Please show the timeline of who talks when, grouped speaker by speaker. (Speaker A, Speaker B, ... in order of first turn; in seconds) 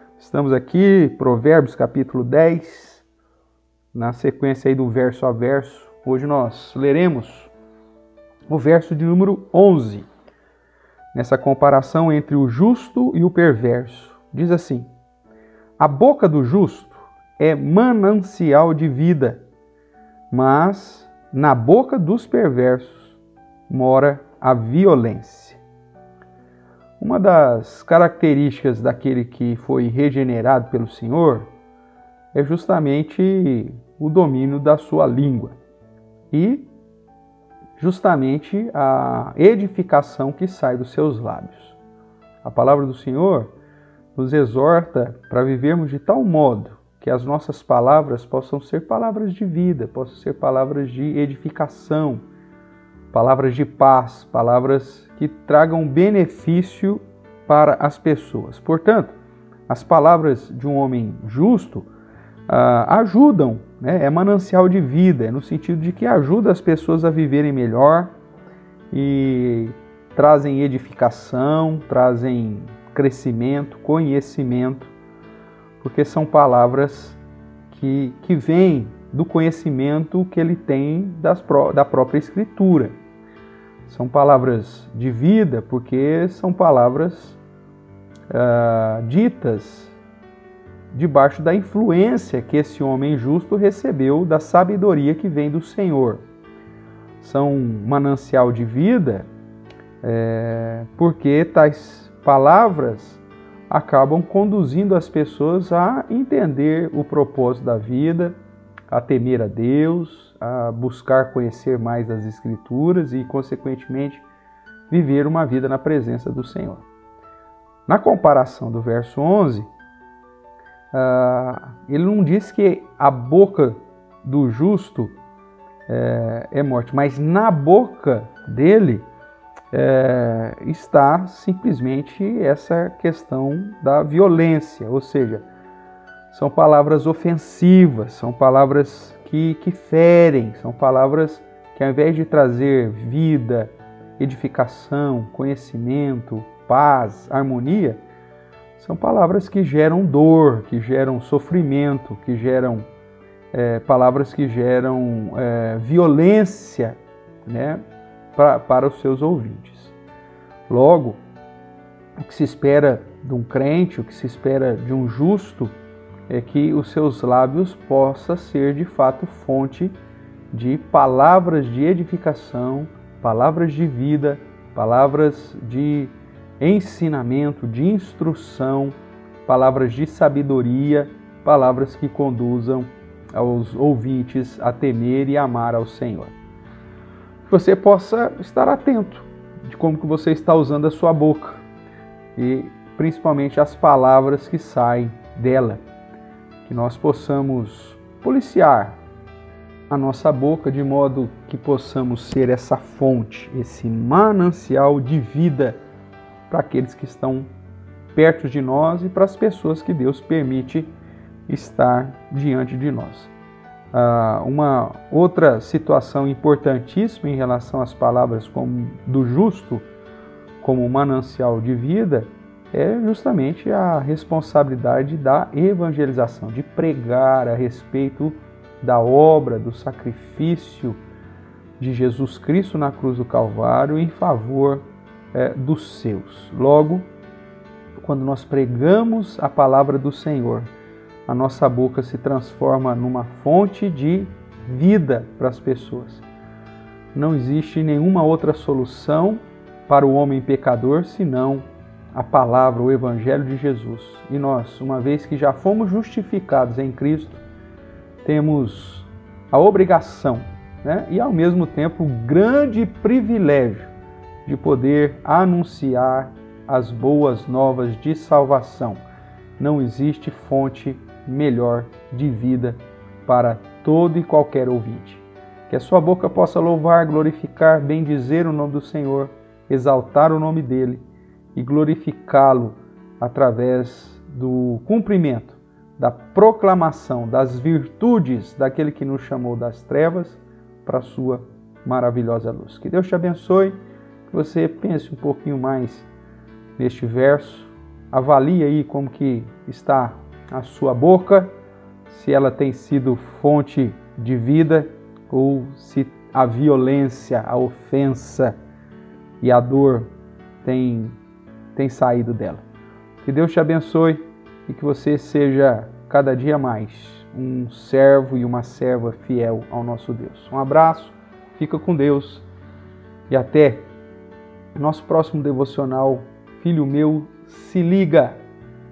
Speaker A: 0.2-3.0, 3.9-7.5, 8.5-10.1, 11.1-14.9, 15.8-19.4, 20.3-25.6, 27.0-31.5, 32.3-35.6, 36.3-36.7, 37.8-41.8, 42.4-43.5, 44.1-52.2, 53.1-59.1, 59.7-61.9, 62.5-68.1, 68.9-74.9, 75.8-83.0, 83.8-87.4, 88.3-90.0, 90.9-96.2, 97.2-99.3, 100.0-108.4, 108.9-114.3, 114.9-116.8, 117.9-119.7, 120.9-125.1, 125.9-129.1, 129.7-135.4, 136.3-148.0, 148.8-152.8, 153.5-157.8, 158.3-159.9, 160.7-161.2, 162.2-165.8, 166.3-170.0, 170.5-186.3, 187.5-191.6, 192.3-195.8, 196.6-199.0, 199.9-205.8, 206.5-207.5, 208.1-210.9, 211.5-213.3, 213.9-219.9, 220.6-231.0, 231.8-237.1, 237.9-240.7, 241.3-246.2, 247.1-257.4, 258.2-263.9, 264.4-269.0, 269.6-293.8, 294.3-296.1, 296.8-301.5, 302.1-308.6, 309.4-310.1, 310.6-311.2, 311.7-312.6, 313.2-322.4, 323.3-323.9, 324.7-328.4